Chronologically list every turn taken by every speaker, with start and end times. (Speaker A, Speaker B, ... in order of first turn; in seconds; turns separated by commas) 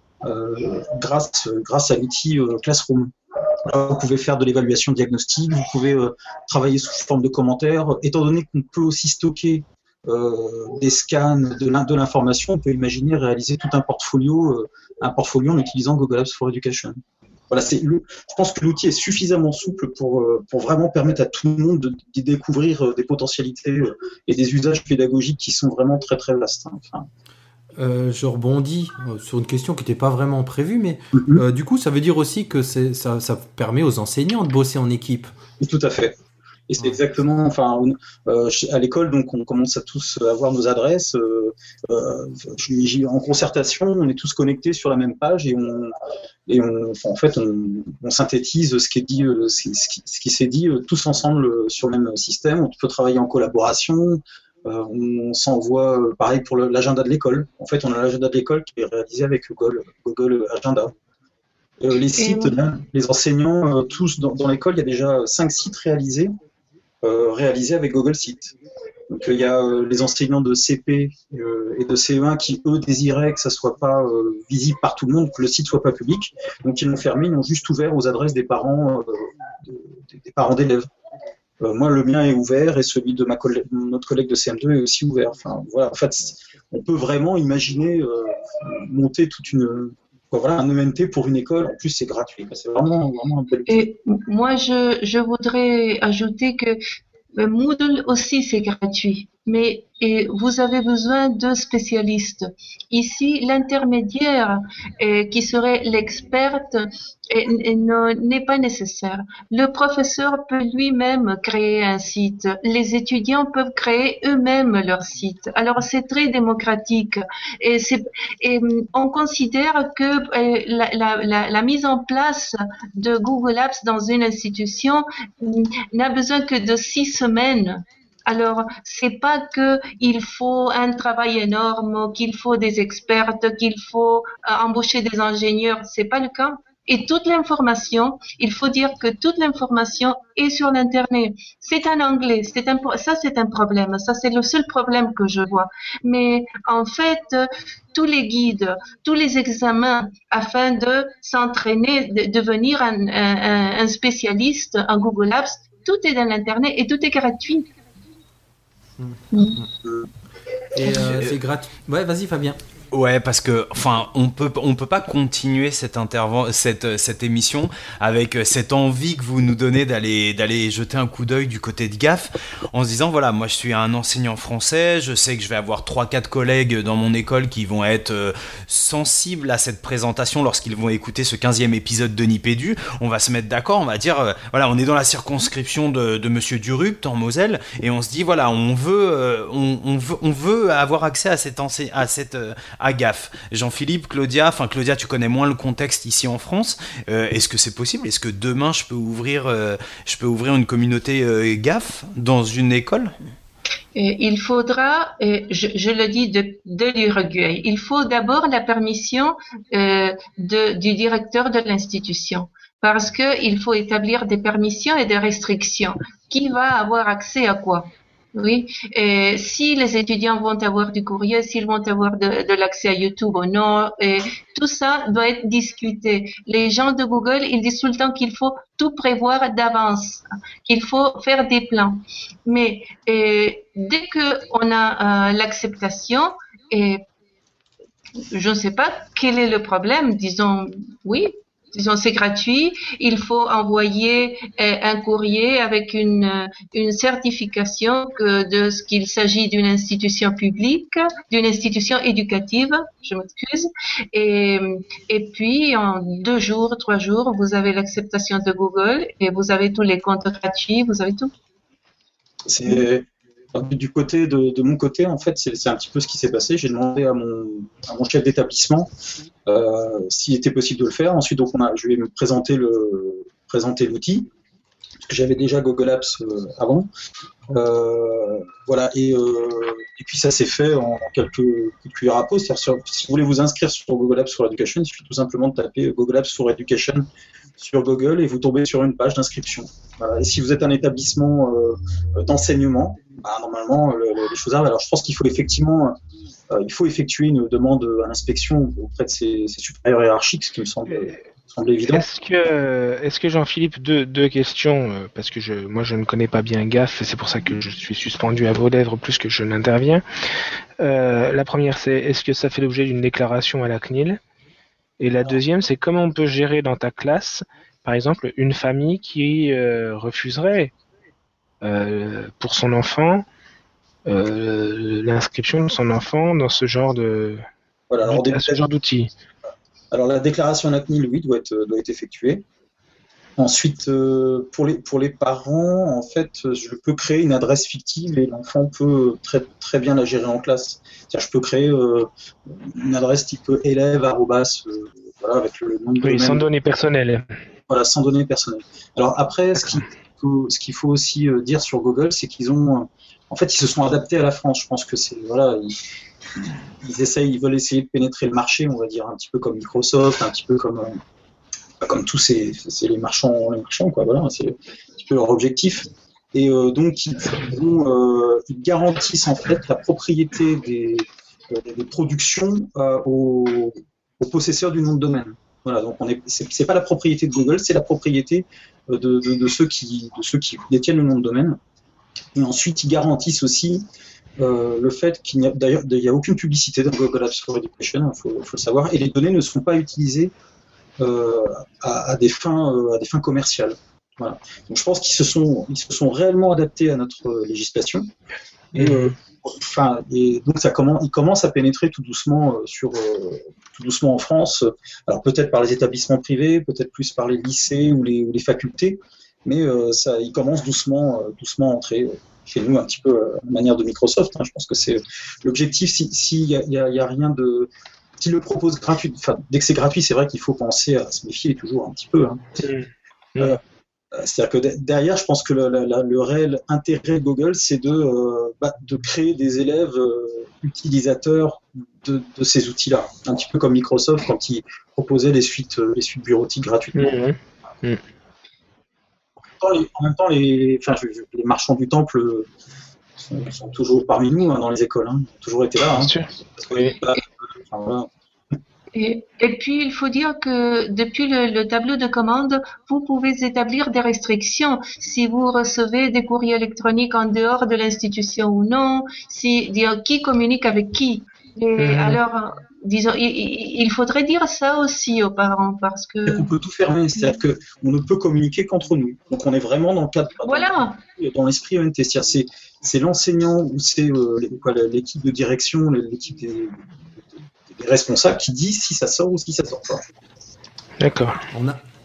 Speaker A: 0.2-3.1, Speaker A: 3.6-17.0, Speaker A: 17.5-27.1, Speaker B: 27.8-35.3, Speaker A: 31.1-31.4, Speaker A: 35.6-36.2, Speaker A: 36.7-45.9, Speaker A: 46.5-60.9, Speaker A: 61.8-66.3, Speaker C: 62.2-62.5, Speaker A: 67.0-68.5, Speaker A: 69.1-80.9, Speaker A: 81.6-93.9, Speaker C: 93.7-96.8, Speaker C: 97.4-157.7, Speaker B: 159.0-159.7, Speaker C: 159.3-159.6, Speaker B: 160.7-162.6, Speaker D: 160.9-161.3, Speaker D: 162.9-203.1, Speaker C: 203.9-237.0, Speaker C: 238.3-261.3, Speaker A: 262.4-268.9, Speaker A: 269.4-274.3, Speaker A: 275.0-276.9, Speaker A: 277.5-287.1, Speaker A: 287.6-295.9, Speaker A: 296.5-302.1, Speaker E: 301.9-310.0, Speaker E: 310.8-314.2, Speaker E: 315.0-320.7, Speaker E: 321.6-323.2, Speaker E: 324.1-327.4, Speaker A: 327.9-328.7, Speaker E: 328.0-329.1, Speaker A: 329.9-332.4, Speaker A: 333.4-346.5, Speaker E: 346.0-347.3, Speaker A: 347.7-355.8, Speaker A: 356.4-361.0, Speaker A: 361.8-381.6, Speaker A: 382.3-383.9, Speaker A: 384.4-390.3, Speaker A: 391.0-398.1, Speaker A: 398.7-422.6, Speaker E: 398.8-399.1, Speaker E: 422.6-423.6, Speaker A: 424.1-437.2, Speaker E: 436.9-438.0, Speaker A: 439.6-442.5, Speaker A: 443.2-448.1, Speaker E: 445.9-447.0, Speaker C: 448.9-466.5, Speaker E: 461.8-462.2, Speaker A: 466.3-476.8, Speaker C: 470.4-471.0, Speaker A: 477.7-480.0, Speaker E: 481.0-481.4, Speaker B: 481.5-481.8